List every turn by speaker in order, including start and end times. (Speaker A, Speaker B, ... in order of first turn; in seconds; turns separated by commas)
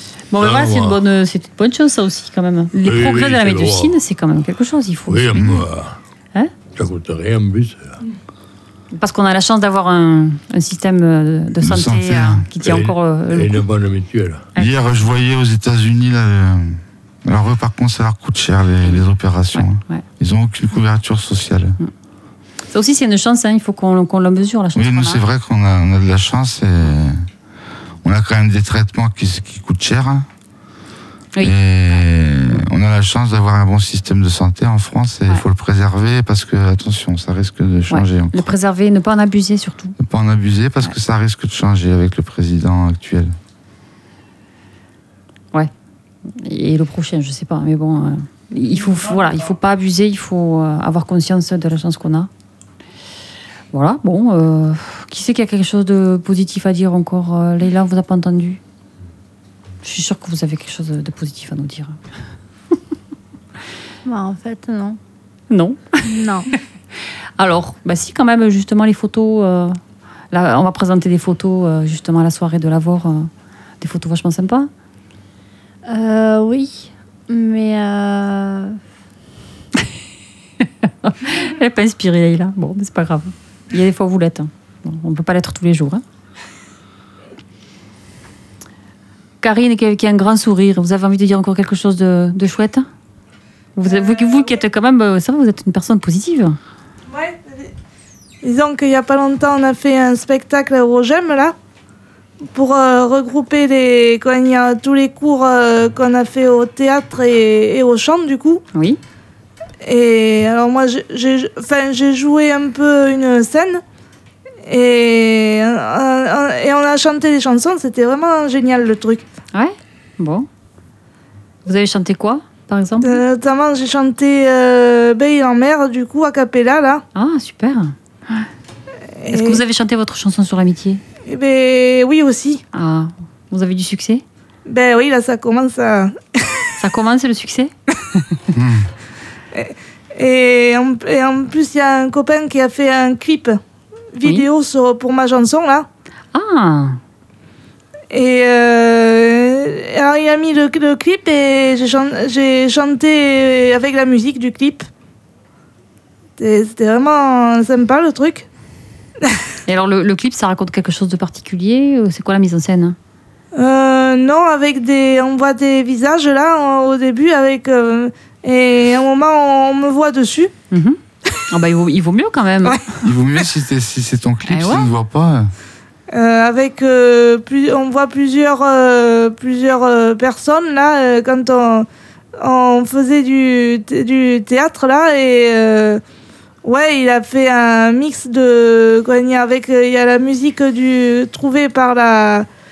Speaker A: 0.3-5.3, Speaker B: 0.4-1.0, Speaker B: 2.8-3.9, Speaker B: 5.1-6.0, Speaker C: 5.3-5.7, Speaker B: 6.7-8.0, Speaker A: 8.9-13.6, Speaker C: 11.6-12.5, Speaker B: 12.6-14.5, Speaker C: 14.6-21.8, Speaker A: 19.5-20.0, Speaker A: 22.7-25.2, Speaker C: 24.8-27.2, Speaker C: 28.0-30.2, Speaker C: 31.4-38.5, Speaker A: 37.9-40.0, Speaker C: 40.0-43.3, Speaker A: 46.3-52.3, Speaker A: 53.7-58.6, Speaker A: 59.8-62.0, Speaker D: 64.0-65.0, Speaker A: 65.5-66.1, Speaker D: 66.1-66.5, Speaker A: 67.4-69.8, Speaker A: 70.3-73.3, Speaker A: 73.8-74.7, Speaker D: 75.9-78.8, Speaker A: 80.6-86.0, Speaker A: 89.4-92.9, Speaker A: 93.8-96.6, Speaker E: 93.8-94.6, Speaker E: 97.1-97.7, Speaker E: 98.4-101.5, Speaker E: 102.5-108.6, Speaker A: 108.7-109.0, Speaker E: 109.8-113.8, Speaker E: 114.7-119.2, Speaker A: 119.5-120.5, Speaker A: 121.6-123.2, Speaker E: 123.0-127.0, Speaker A: 127.1-128.5, Speaker E: 129.2-129.6, Speaker A: 129.3-131.0, Speaker E: 131.3-132.6, Speaker A: 132.7-134.2, Speaker E: 134.7-136.2, Speaker A: 136.8-138.4, Speaker C: 138.5-138.9, Speaker E: 139.5-143.6, Speaker E: 144.1-145.9, Speaker A: 146.3-147.0, Speaker E: 148.1-154.9, Speaker E: 156.4-158.5, Speaker A: 159.7-163.0, Speaker E: 163.5-170.5, Speaker A: 170.7-171.0, Speaker A: 171.5-172.9, Speaker C: 173.0-175.5, Speaker A: 174.5-174.9, Speaker E: 176.1-181.9, Speaker E: 182.4-186.0, Speaker E: 186.6-192.5